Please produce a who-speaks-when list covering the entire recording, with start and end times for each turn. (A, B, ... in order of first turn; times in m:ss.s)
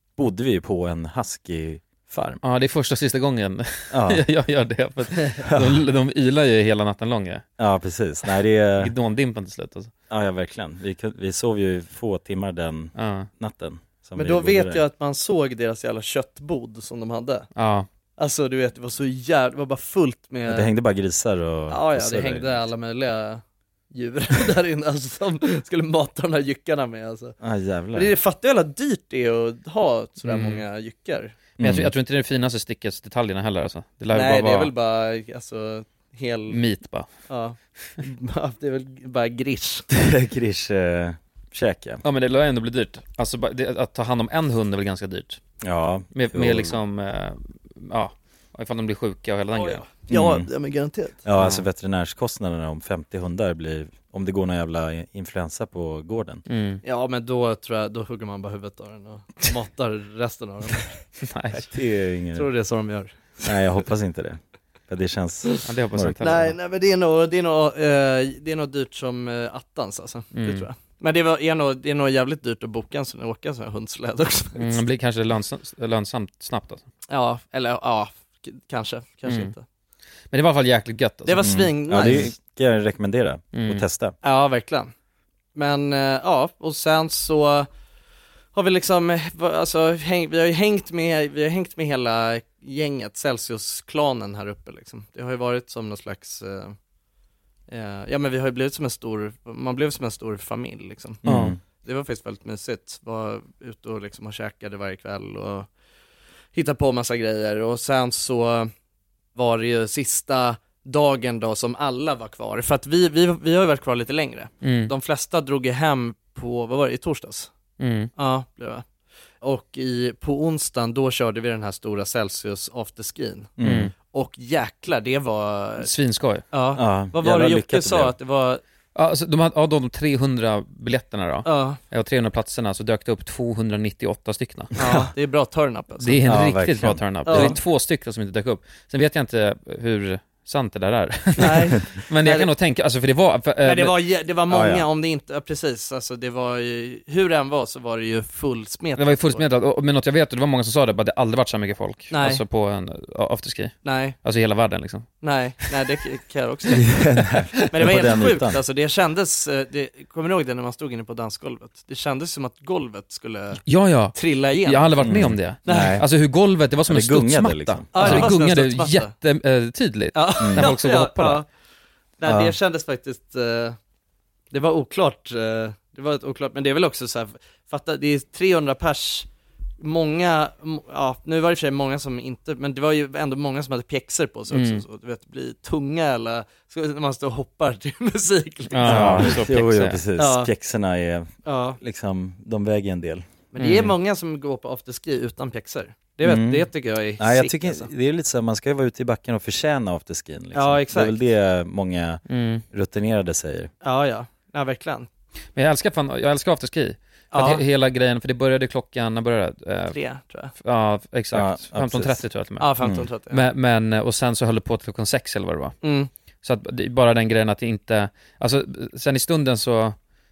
0:00.2-0:01.8 A
0:02.1-0:02.4 B
0:02.4-0:07.4 C
0:03.9-0:04.2 A
0:05.4-0:05.8 A
0:07.6-0:08.9 A
0:08.8-0:09.9 C
0:10.1-0:14.8 A
0:13.0-0:13.3 C
0:14.2-0:17.5 B
0:17.6-0:17.9 C
0:18.2-0:20.7 B
0:20.5-0:22.6 A
0:21.7-0:27.3 B
0:27.4-0:28.1 A
0:27.9-0:31.3 B
0:30.2-0:30.6 C
0:31.6-0:31.9 A
0:31.6-0:34.7 C
0:34.1-0:36.6 B
0:36.5-0:37.1 C
0:37.3-0:39.8 B
0:39.9-0:42.0 A
0:42.0-0:45.4 C
0:45.6-0:46.8 A
0:46.1-0:49.9 C
0:49.6-0:51.2 B
0:50.1-0:50.5 A
0:51.2-0:56.4 A
0:51.4-0:51.6 C
0:56.5-0:56.8 C
0:56.8-1:01.0 B
1:01.2-1:01.7 C
1:01.7-1:02.5 A
1:02.3-1:03.6 B
1:03.4-1:06.4 A
1:05.6-1:06.5 C
1:06.2-1:14.8 B
1:10.3-1:10.7 C
1:14.6-1:16.8 C
1:17.1-1:19.6 B
1:19.2-1:19.5 C
1:20.3-1:22.3 C
1:21.2-1:22.3 B
1:21.4-1:24.1 A
1:23.5-1:23.8 C
1:24.2-1:24.9 B
1:25.5-1:27.7 B
1:28.5-1:36.8 B
1:37.7-1:41.2 B
1:41.2-1:41.6 A
1:41.2-1:41.5 C
1:41.8-1:45.7 B
1:46.5-1:48.7 B
1:49.3-1:57.5 B
1:54.6-1:54.9 C
1:57.8-1:58.1 C
1:58.2-1:58.8 B
1:59.4-2:03.5 B
2:03.6-2:03.9 A
2:03.6-2:03.9 C
2:04.1-2:05.9 B
2:05.8-2:06.4 C
2:06.5-2:08.6 B
2:06.8-2:08.1 A
2:08.9-2:14.7 C
2:11.4-2:11.8 B
2:14.8-2:16.2 B
2:16.0-2:24.0 C
2:16.2-2:17.6 A
2:17.2-2:17.6 B
2:21.4-2:22.5 B
2:23.6-2:29.4 B
2:24.5-2:24.8 A
2:29.0-2:35.1 C
2:32.1-2:32.4 B
2:33.8-2:34.2 B
2:35.2-2:37.0 B
2:36.7-2:38.6 A
2:37.7-2:43.6 B
2:43.6-2:51.4 C
2:44.1-2:45.1 B
2:45.0-2:46.1 A
2:45.6-2:46.0 B
2:46.9-2:48.3 A
2:47.9-2:49.1 B
2:50.1-2:51.4 B
2:50.4-2:50.7 A
2:52.2-2:53.8 B
2:52.2-2:52.5 A
2:54.5-2:59.3 B
2:59.8-3:09.4 B
3:04.5-3:04.8 C
3:08.7-3:10.0 C
3:08.8-3:13.2 A
3:10.2-3:10.5 B
3:11.4-3:11.8 B
3:13.5-3:17.9 B
3:13.6-3:13.9 C
3:16.2-3:23.7 A
3:20.5-3:21.2 B
3:22.3-3:22.6 C
3:23.8-3:25.1 B
3:25.5-3:30.0 C
3:27.3-3:27.6 B
3:29.9-3:30.5 B
3:30.6-3:32.7 C
3:31.3-3:32.2 A
3:32.6-3:33.4 B
3:32.8-3:33.0 A
3:33.3-3:35.8 C
3:35.8-3:36.1 B
3:36.4-3:40.0 C